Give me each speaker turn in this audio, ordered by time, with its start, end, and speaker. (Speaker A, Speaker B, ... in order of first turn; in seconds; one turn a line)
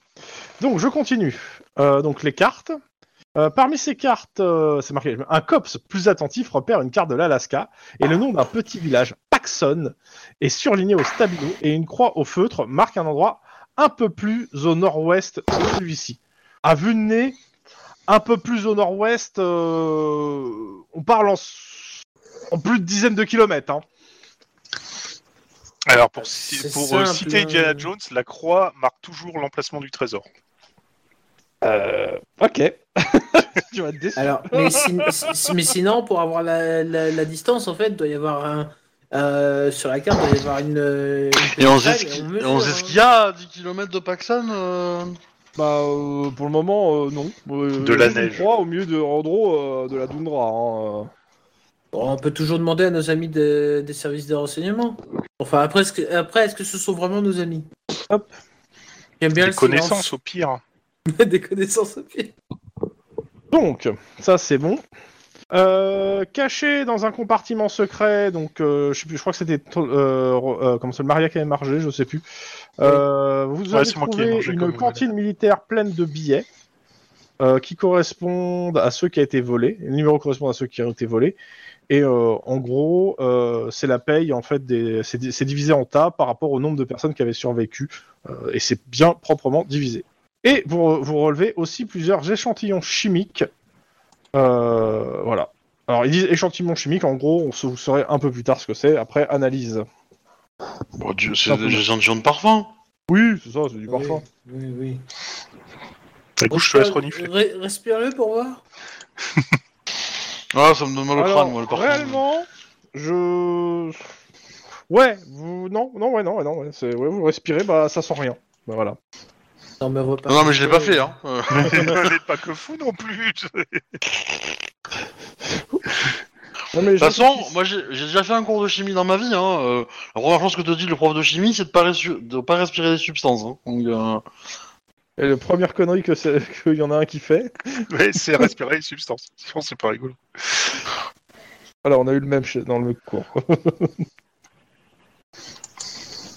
Speaker A: 0.6-2.8
Speaker A: 3.4-17.4
Speaker A: 18.1-23.8
Speaker B: 25.9-30.2
Speaker C: 26.5-27.9
Speaker A: 31.6-35.3
Speaker C: 34.1-43.0
Speaker D: 41.6-45.2
Speaker A: 45.5-51.1
Speaker B: 47.8-48.4
Speaker C: 51.9-57.7
Speaker C: 59.2-60.1
Speaker B: 59.4-60.6
Speaker C: 61.1-62.3
Speaker A: 63.5-64.8
Speaker A: 65.5-72.2
Speaker A: 72.8-76.5
Speaker B: 73.7-75.0
Speaker A: 77.4-81.4
Speaker A: 81.9-93.5
Speaker A: 94.3-99.8
Speaker D: 101.0-102.7
Speaker A: 101.5-101.8
Speaker A: 103.1-104.2
Speaker C: 103.9-105.0
Speaker B: 106.4-107.3
Speaker C: 106.5-108.6
Speaker D: 110.5-112.2
Speaker A: 111.2-114.1
Speaker A: 114.9-119.0
Speaker C: 119.8-121.1
Speaker D: 120.3-122.1
Speaker B: 121.5-124.0
Speaker A: 126.7-127.5
Speaker D: 127.0-134.2
Speaker A: 135.2-137.8
Speaker B: 137.9-140.7
Speaker A: 141.8-143.9